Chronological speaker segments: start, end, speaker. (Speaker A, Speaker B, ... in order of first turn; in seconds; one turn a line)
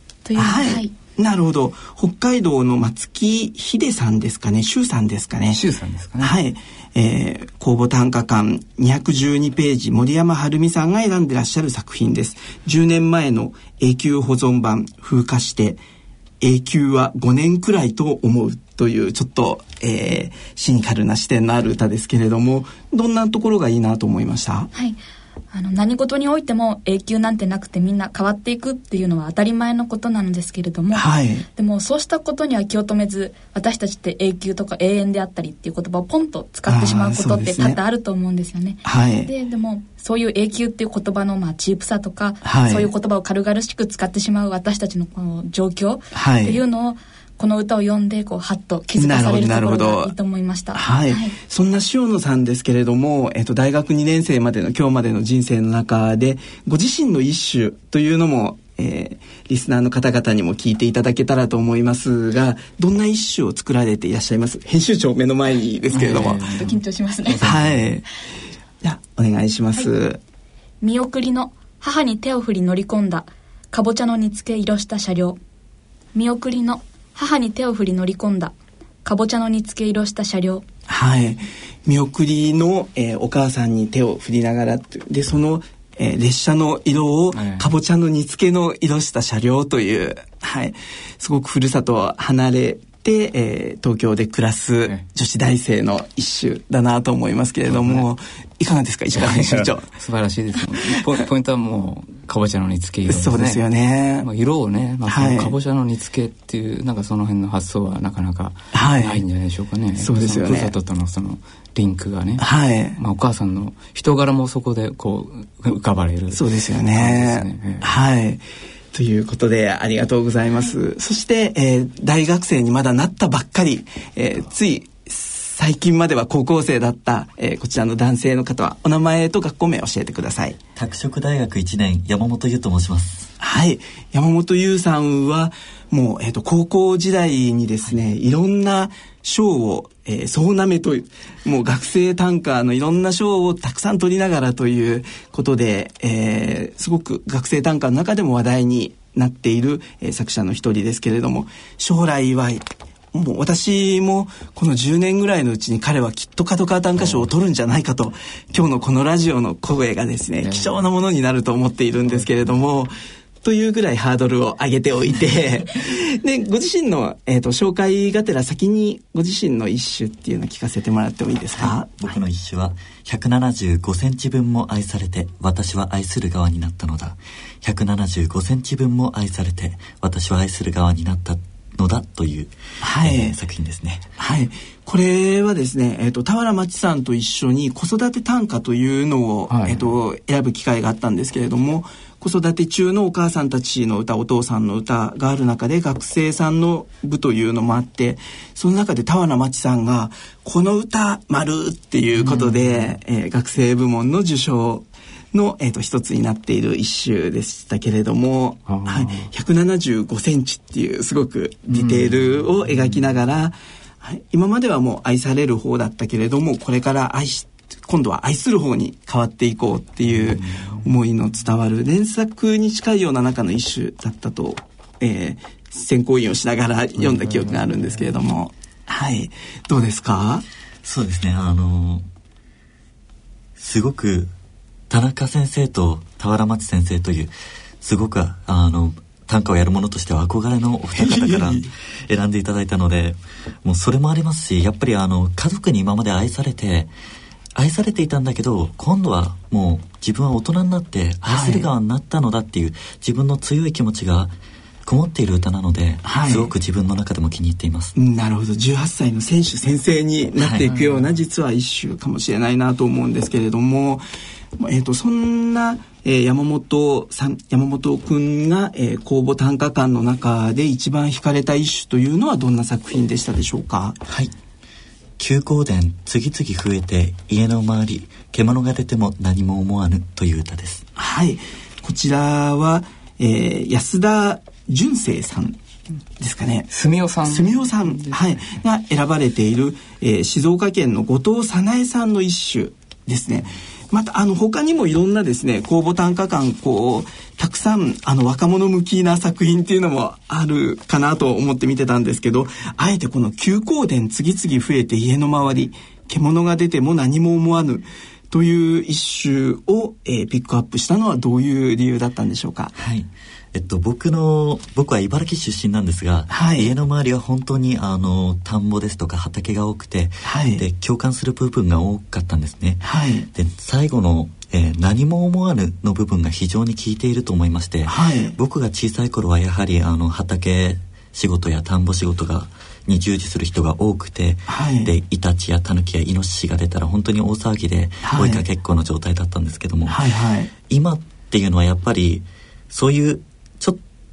Speaker A: 0.2-0.9
Speaker B: 0.4-5.6
Speaker C: 5.5-6.3
Speaker B: 6.2-15.8
Speaker B: 16.4-24.7
Speaker A: 25.5-51.4
Speaker B: 30.9-31.5
Speaker B: 36.7-37.8
Speaker B: 38.9-39.3
Speaker B: 42.4-42.9
Speaker B: 46.1-46.6
Speaker B: 49.0-50.1
Speaker B: 50.7-66.5
Speaker C: 65.9-67.9
Speaker A: 66.1-67.5
Speaker B: 67.4-68.0
Speaker B: 68.8-70.2
Speaker A: 70.8-75.4
Speaker A: 76.2-80.7
Speaker B: 80.9-99.8
Speaker C: 87.3-87.7
Speaker C: 97.7-98.1
Speaker C: 99.2-103.6
Speaker B: 103.1-104.3
Speaker C: 104.2-117.9
Speaker B: 105.1-105.5
Speaker B: 108.7-109.2
Speaker B: 110.0-110.8
Speaker B: 112.4-113.0
Speaker B: 116.3-130.6
Speaker D: 130.8-133.3
Speaker B: 133.4-162.9
Speaker C: 157.0-157.3
Speaker C: 160.4-160.9
Speaker C: 162.0-162.5
Speaker B: 163.4-172.1
Speaker D: 171.6-184.1
Speaker B: 182.8-183.4
Speaker B: 184.2-230.4
Speaker C: 189.5-189.9
Speaker C: 202.2-202.9
Speaker C: 208.7-209.3
Speaker C: 211.7-213.1
Speaker C: 220.1-220.8
Speaker C: 227.0-228.1
Speaker D: 230.8-232.1
Speaker D: 233.6-234.3
Speaker D: 234.9-246.9
Speaker B: 240.9-241.7
Speaker D: 247.6-257.9
Speaker B: 251.3-251.7
Speaker B: 256.0-256.5
Speaker B: 258.0-264.1
Speaker D: 260.4-260.8
Speaker B: 264.6-274.0
Speaker D: 274.1-274.3
Speaker D: 275.2-280.8
Speaker B: 281.0-285.6
Speaker B: 286.2-286.7
Speaker C: 286.7-288.4
Speaker B: 287.2-312.7
Speaker D: 312.8-340.1
Speaker B: 316.3-316.7
Speaker B: 320.2-320.6
Speaker B: 322.8-323.3
Speaker B: 327.9-328.4
Speaker B: 334.5-334.9
Speaker B: 338.0-338.4
Speaker B: 339.9-340.5
Speaker D: 340.7-343.8